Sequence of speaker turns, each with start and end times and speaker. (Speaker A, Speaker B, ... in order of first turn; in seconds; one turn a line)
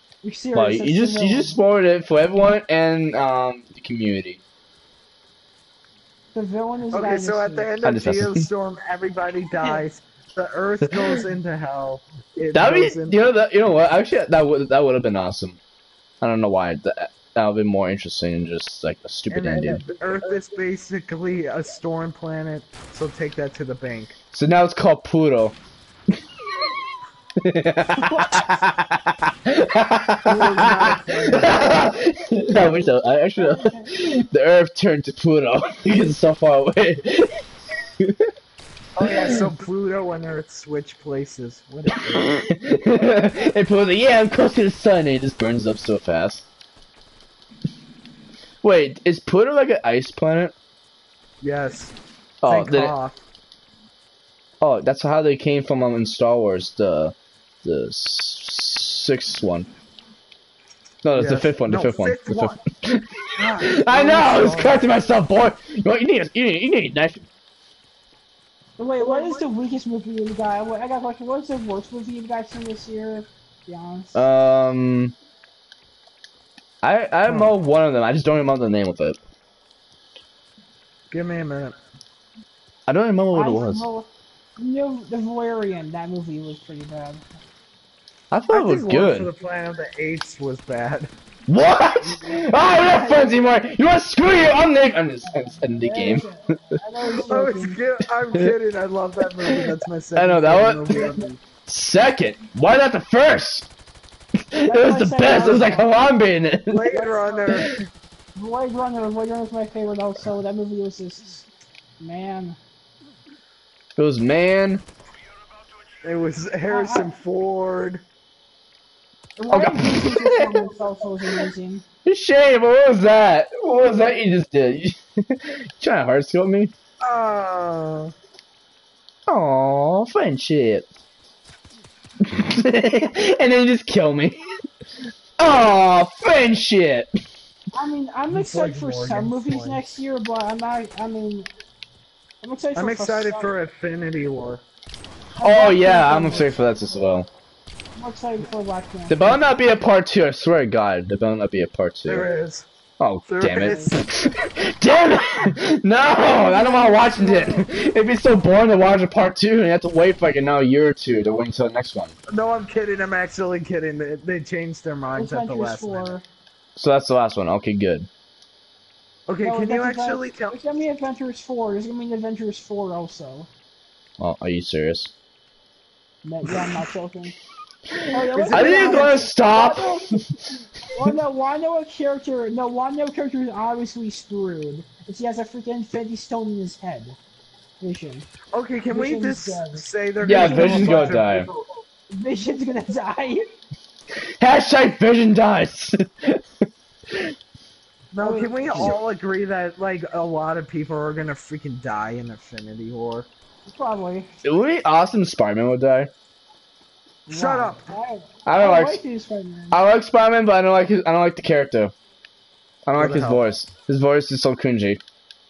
Speaker A: 0.2-1.6
Speaker B: 0.5-4.4
Speaker A: 6.3-7.8
Speaker C: 6.9-13.2
Speaker B: 7.8-8.5
Speaker B: 12.5-15.6
Speaker B: 16.2-19.9
Speaker C: 19.3-24.1
Speaker B: 24.3-25.6
Speaker B: 27.4-38.3
Speaker A: 28.0-28.6
Speaker C: 30.2-31.8
Speaker A: 33.4-33.9
Speaker C: 39.0-42.4
Speaker B: 39.0-39.4
Speaker B: 42.1-46.4
Speaker B: 48.6-50.5
Speaker C: 51.4-52.0
Speaker B: 52.4-52.9
Speaker C: 52.5-53.2
Speaker B: 54.6-59.7
Speaker B: 61.0-67.3
Speaker C: 61.1-62.6
Speaker C: 63.3-65.0
Speaker A: 68.8-74.2
Speaker C: 69.0-69.3
Speaker B: 74.1-75.1
Speaker B: 76.8-79.2
Speaker C: 77.2-77.5
Speaker C: 81.1-81.8
Speaker B: 82.9-83.9
Speaker A: 83.3-84.1
Speaker A: 84.6-87.2
Speaker B: 88.3-89.3
Speaker C: 88.5-91.1
Speaker B: 91.5-96.5
Speaker A: 92.8-93.4
Speaker A: 95.5-97.8
Speaker C: 97.1-101.4
Speaker B: 99.5-101.1
Speaker B: 101.7-103.7
Speaker B: 104.5-106.9
Speaker A: 104.6-105.9
Speaker C: 105.2-105.8
Speaker C: 106.7-107.9
Speaker A: 106.9-107.7
Speaker A: 108.3-111.5
Speaker A: 112.0-112.6
Speaker B: 114.0-114.8
Speaker C: 116.0-118.0
Speaker A: 116.7-117.1
Speaker A: 119.4-121.8
Speaker B: 119.5-120.7
Speaker B: 122.0-126.7
Speaker C: 127.0-128.1
Speaker B: 129.3-130.9
Speaker B: 132.2-134.4
Speaker B: 135.4-137.1
Speaker A: 137.7-141.5
Speaker C: 138.2-140.0
Speaker A: 142.4-143.5
Speaker C: 142.7-144.6
Speaker A: 145.4-146.6
Speaker B: 145.4-147.3
Speaker A: 148.0-149.5
Speaker B: 149.1-152.3
Speaker C: 152.1-152.7
Speaker B: 153.0-162.1
Speaker C: 153.2-154.1
Speaker A: 156.3-157.7
Speaker C: 162.3-166.2
Speaker A: 165.1-166.2
Speaker B: 166.8-168.1
Speaker C: 169.3-170.7
Speaker A: 169.4-173.5
Speaker B: 174.2-175.1
Speaker A: 176.2-177.3
Speaker B: 176.4-176.8
Speaker B: 177.9-180.5
Speaker A: 178.1-180.1
Speaker C: 178.2-179.3
Speaker A: 180.9-187.2
Speaker A: 187.8-188.2
Speaker C: 188.5-191.5
Speaker A: 188.9-191.4
Speaker B: 190.2-191.5
Speaker A: 192.1-193.5
Speaker B: 194.4-197.3
Speaker C: 198.1-203.3
Speaker A: 198.2-198.9
Speaker B: 198.7-199.0
Speaker A: 203.7-204.3
Speaker B: 204.4-206.1
Speaker A: 207.3-209.8
Speaker C: 207.3-207.9
Speaker B: 208.4-209.0
Speaker B: 209.7-211.9
Speaker B: 212.9-215.0
Speaker C: 212.9-213.5